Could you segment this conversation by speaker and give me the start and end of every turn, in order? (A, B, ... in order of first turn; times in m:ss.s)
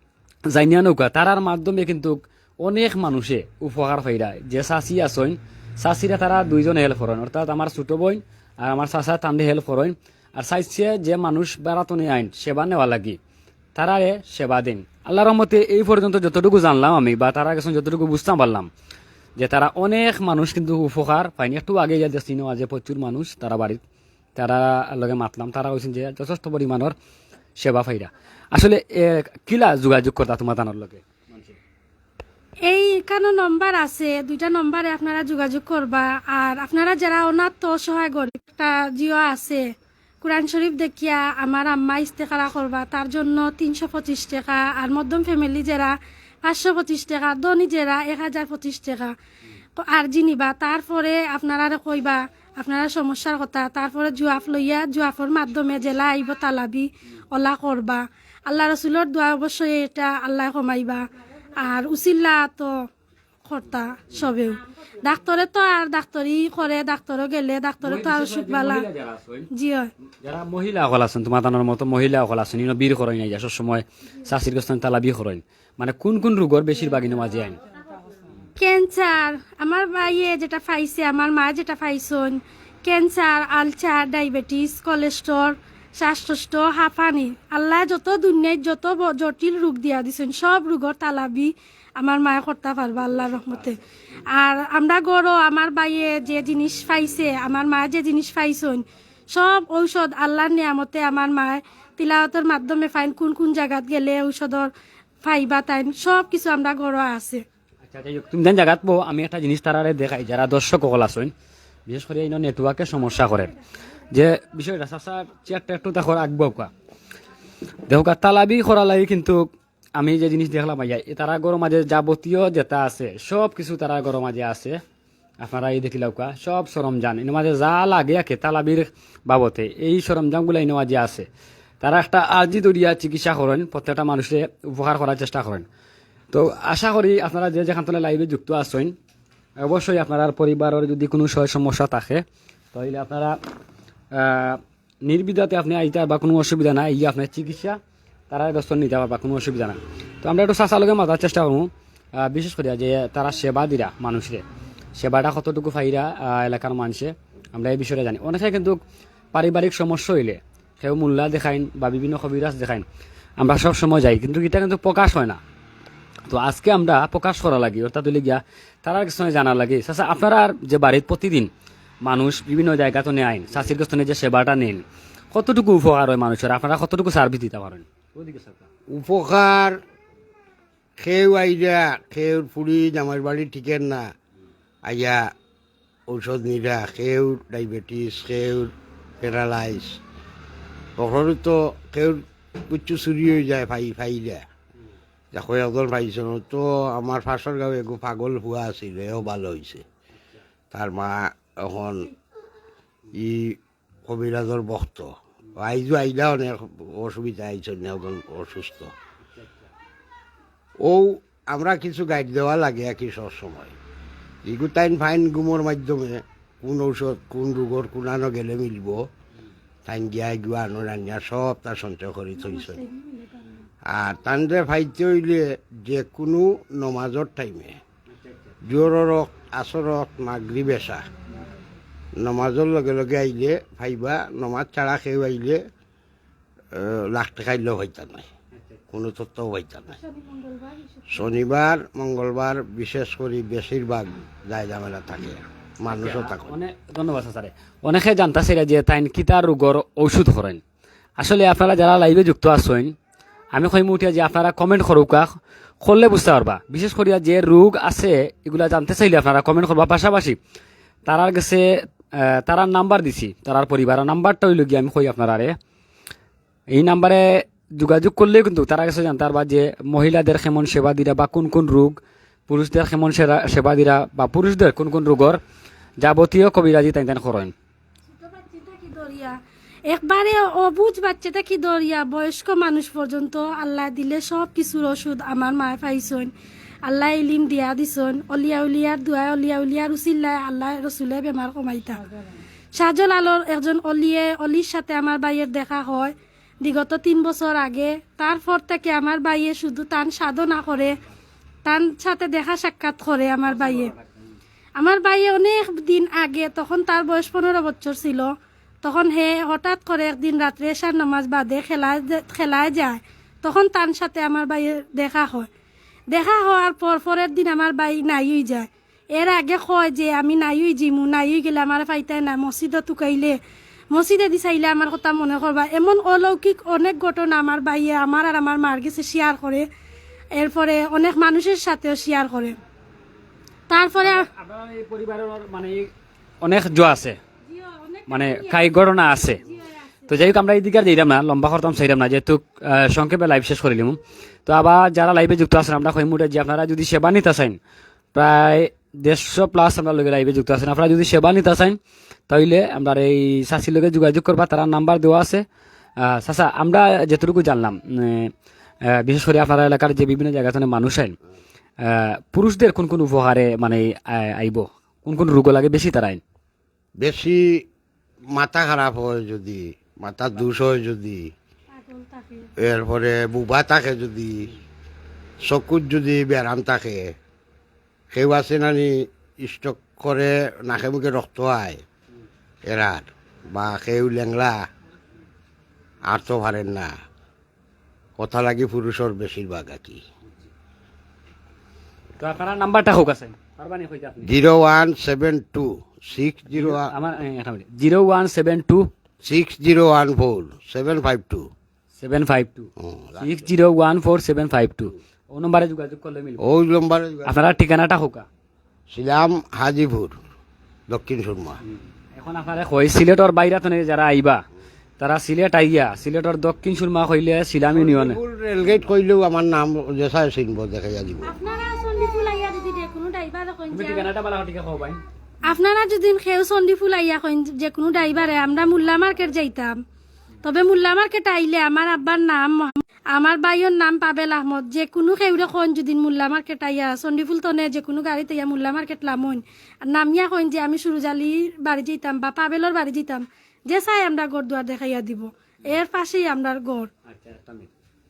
0:00.5-0:13.2 A
0:13.8-0:18.7 A
0:19.4-0:23.8 A
0:24.4-0:26.9 A
0:27.6-0:31.6 A
0:32.7-0:39.6 B
0:40.2-0:49.1 B
0:49.8-1:01.0 B
1:01.6-1:02.7 B
1:03.5-1:08.8 B
1:07.8-1:09.5 A
1:09.5-1:09.9 B
1:10.2-1:17.6 A
1:18.6-1:33.8 B
1:34.3-1:44.7 B
1:45.2-1:47.4 B
1:47.8-1:51.3 A
1:51.9-1:53.5 A
1:54.1-1:56.7 A
1:57.9-2:04.8 A
2:05.4-2:11.3 A
2:11.8-2:15.6 A
2:16.3-2:19.0 A
2:19.6-2:23.4 A
2:24.1-2:27.8 A
2:28.3-2:34.4 A
2:35.0-2:38.8 A
2:39.3-2:42.9 A
2:43.4-2:45.4 A
2:46.3-2:51.5 A
2:52.0-2:58.7 A
2:58.9-2:59.8 C
3:01.0-3:04.1 C
3:04.8-3:05.3 C
3:06.1-3:10.0 C
3:11.0-3:14.4 C
3:15.3-3:19.8 C
3:20.7-3:22.1 C
3:23.1-3:28.9 C
3:29.3-3:29.6 A
3:30.8-3:33.7 C
3:34.5-3:39.1 C
3:39.9-3:42.8 C
3:42.4-3:43.6 B
3:43.9-3:47.8 C
3:48.1-3:48.6 A
3:48.6-3:51.1 C
3:52.2-3:55.6 C
3:56.7-3:58.3 C
3:58.5-3:58.8 A
3:58.9-4:00.0 C
4:00.0-4:01.2 B
4:01.1-4:06.6 C
4:05.9-4:10.6 A
4:11.2-4:13.0 A
4:13.5-4:20.4 A
4:21.1-4:25.6 A
4:26.7-4:35.4 A
4:36.0-4:37.5 A
4:38.2-4:46.3 B
4:46.8-4:52.0 B
4:52.7-5:01.0 B
5:01.6-5:03.9 B
5:03.5-5:04.3 A
5:04.8-5:08.3 B
5:08.8-5:15.5 B
5:16.1-5:23.4 B
5:23.9-5:29.7 B
5:30.4-5:32.6 B
5:33.7-5:34.3 B
5:34.0-5:35.9 A
5:36.4-5:37.2 A
5:37.5-5:40.2 B
5:38.1-5:39.4 A
5:40.1-5:47.6 A
5:48.1-5:51.8 A
5:52.3-5:55.4 A
5:56.0-5:58.3 A
5:58.8-6:01.2 A
6:01.8-6:06.2 A
6:07.0-6:07.6 C
6:08.3-6:11.3 C
6:11.7-6:12.5 B
6:12.6-6:14.5 C
6:15.5-6:17.1 C
6:18.1-6:21.8 C
6:22.7-6:24.6 C
6:26.1-6:26.9 C
6:28.2-6:30.0 C
6:32.2-6:34.3 A
6:34.2-6:36.9 C
6:36.5-6:38.9 A
6:39.2-6:41.5 C
6:42.0-6:46.4 A
6:42.8-6:43.4 C
6:46.4-6:47.3 C
6:47.3-6:48.3 A
6:48.9-6:50.2 C
6:50.9-6:51.6 C
6:52.2-6:54.4 A
6:55.0-6:58.2 A
6:57.7-7:01.3 C
7:01.2-7:04.1 B
7:03.7-7:05.0 A
7:05.5-7:09.8 B
7:10.4-7:26.9 B
7:27.1-7:27.7 A